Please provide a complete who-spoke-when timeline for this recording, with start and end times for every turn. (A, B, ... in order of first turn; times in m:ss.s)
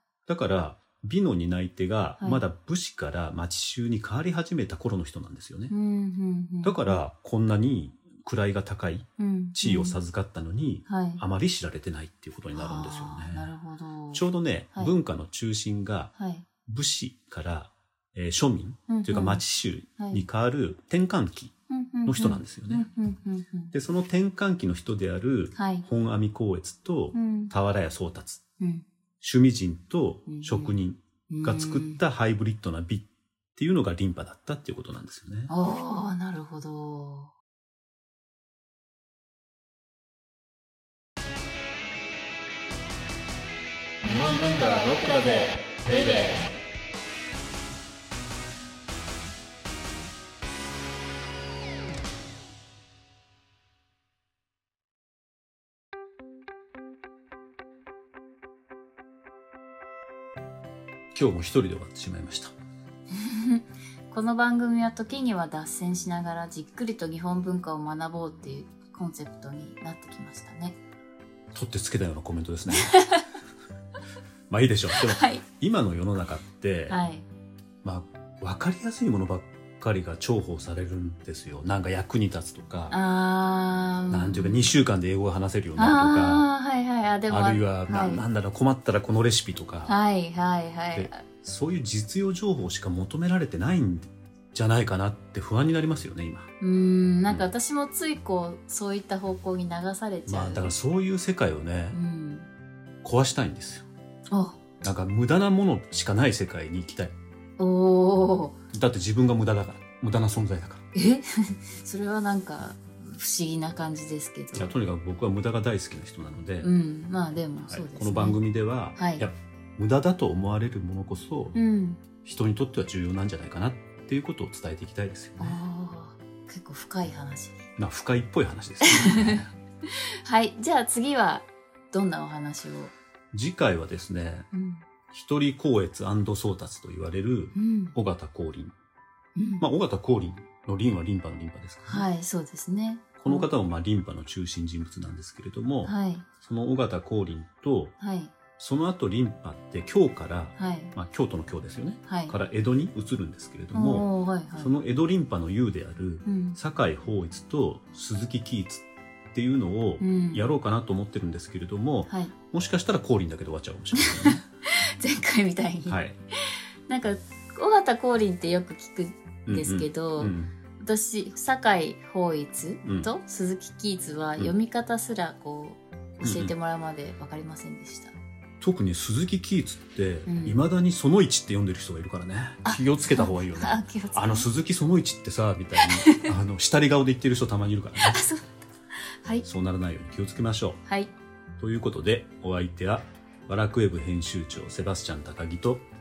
0:00.3-0:05.7 A
0:05.7-0:07.0 B
0:06.6-0:13.5 A
0:09.2-0:10.0 B
0:10.9-0:11.2 B
0:12.5-0:14.9 B
0:14.1-0:16.1 A
0:16.2-0:16.5 B
0:16.6-0:21.5 A
0:18.9-0:19.4 B
0:20.0-0:20.2 B
0:21.7-0:23.7 B
0:22.1-0:22.9 A
0:23.7-0:28.4 A
0:25.6-0:25.9 B
0:27.1-0:27.5 B
0:28.6-0:28.9 B
0:29.2-0:35.5 A
0:30.3-0:30.7 B
0:31.3-0:32.0 B
0:35.5-0:37.3 B
0:44.0-0:46.4 C
1:01.1-1:02.5 A
1:03.1-1:10.8 B
1:11.5-1:13.0 A
1:12.7-1:13.3 B
1:14.5-1:17.0 A
1:14.9-1:15.4 B
1:16.9-1:17.3 B
1:17.8-1:23.0 A
1:22.9-1:24.7 B
1:24.1-1:26.5 A
1:25.8-1:28.3 B
1:27.3-1:30.0 A
1:29.9-1:31.2 B
1:30.9-1:36.5 A
1:36.6-1:40.7 B
1:40.3-1:42.0 A
1:41.9-1:42.5 B
1:43.0-1:43.9 A
1:44.3-1:44.6 B
1:44.8-1:47.2 A
1:47.6-1:48.6 B
1:48.7-1:50.8 A
1:51.0-1:54.7 B
1:54.5-1:56.7 A
1:56.6-1:58.4 B
1:57.7-2:01.6 A
1:59.0-1:59.2 B
2:01.5-2:02.0 B
2:02.2-2:05.6 A
2:05.4-2:07.7 B
2:07.8-2:09.5 A
2:08.8-2:12.9 B
2:13.3-2:14.5 A
2:14.5-2:14.9 B
2:15.1-2:18.8 A
2:17.6-2:18.0 B
2:19.4-2:19.6 B
2:19.6-2:22.1 A
2:21.9-2:23.5 B
2:23.2-2:27.9 A
2:25.8-2:26.3 B
2:28.0-2:28.3 B
2:28.6-2:44.4 A
2:30.6-2:30.9 B
2:32.1-2:32.4 B
2:33.7-2:34.7 B
2:36.2-2:36.6 B
2:40.0-2:40.4 B
2:42.1-2:42.3 B
2:44.0-2:46.0 B
2:45.9-2:46.2 A
2:46.9-2:58.2 B
2:49.5-2:50.5 A
2:52.8-2:53.1 A
2:56.2-2:56.5 A
2:58.6-3:08.2 A
3:00.3-3:00.6 B
3:02.6-3:04.5 B
3:05.8-3:06.3 B
3:08.0-3:08.6 B
3:09.4-3:10.8 A
3:10.9-3:11.1 B
3:11.6-3:15.8 A